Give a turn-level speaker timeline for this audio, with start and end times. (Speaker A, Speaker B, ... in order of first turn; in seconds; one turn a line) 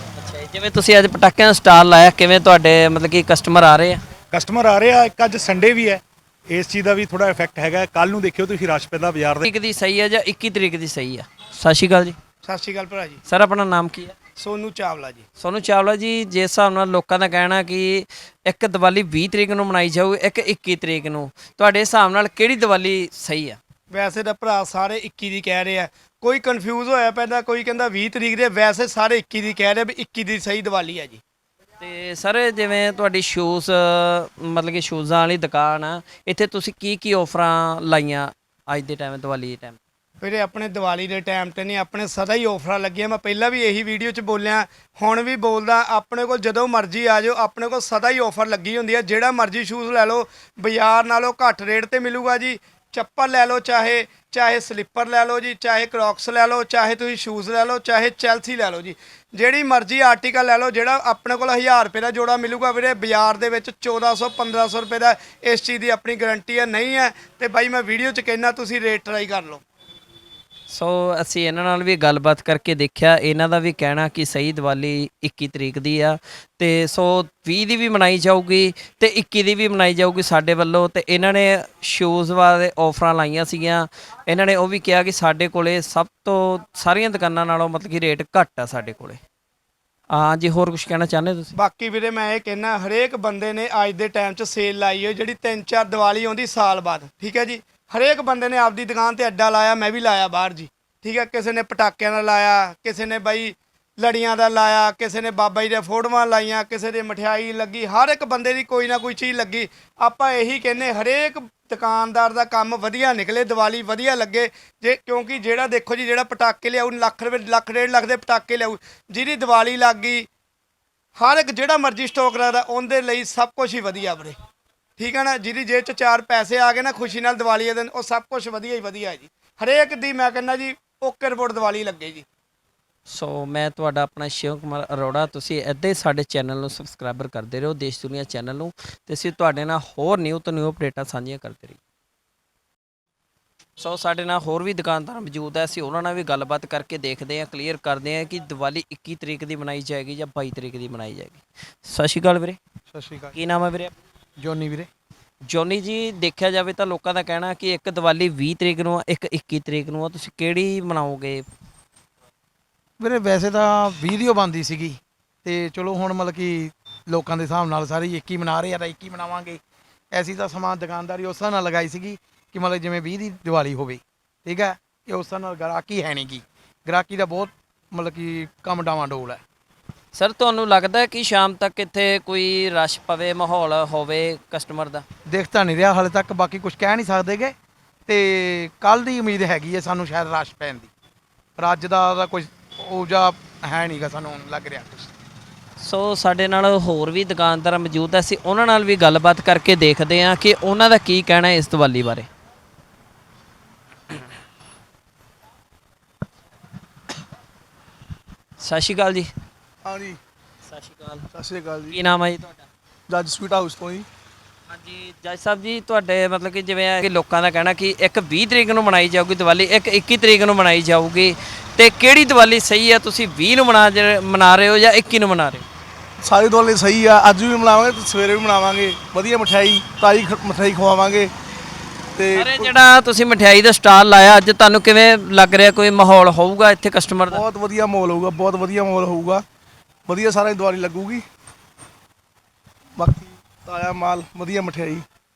Speaker A: 0.2-4.0
Speaker B: 4.3-9.4
Speaker A: 9.4-12.2
Speaker C: 12.4-13.2
Speaker A: 13.3-14.1
Speaker C: 14.4-15.2
Speaker A: 15.4-23.6
Speaker C: 23.9-31.2
Speaker A: 31.8-39.8
Speaker C: 40.2-69.6
Speaker A: 70.7-89.2
Speaker A: 90.1-91.5
Speaker C: 91.5-120.3
Speaker C: 121.2-124.3
Speaker C: 125.0-132.2
Speaker A: 133.1-141.8
Speaker A: 143.8-152.6
Speaker D: 152.9-153.3
Speaker A: 153.3-153.9
Speaker D: 154.4-154.9
Speaker A: 155.5-161.4
Speaker D: 163.0-169.6
Speaker D: 170.1-179.4
Speaker A: 180.1-185.0
Speaker D: 185.3-187.5
Speaker D: 188.1-190.9
Speaker D: 191.6-195.1
Speaker A: 195.8-202.3
Speaker A: 208.6-209.3
Speaker E: 209.8-210.2
Speaker A: 210.7-211.2
Speaker E: 211.3-212.0
Speaker A: 211.9-212.7
Speaker E: 213.1-214.1
Speaker A: 214.7-225.6
Speaker E: 226.2-231.3
Speaker E: 232.2-232.7
Speaker A: 232.3-237.4
Speaker E: 237.3-239.4
Speaker E: 240.1-241.2
Speaker E: 243.0-245.0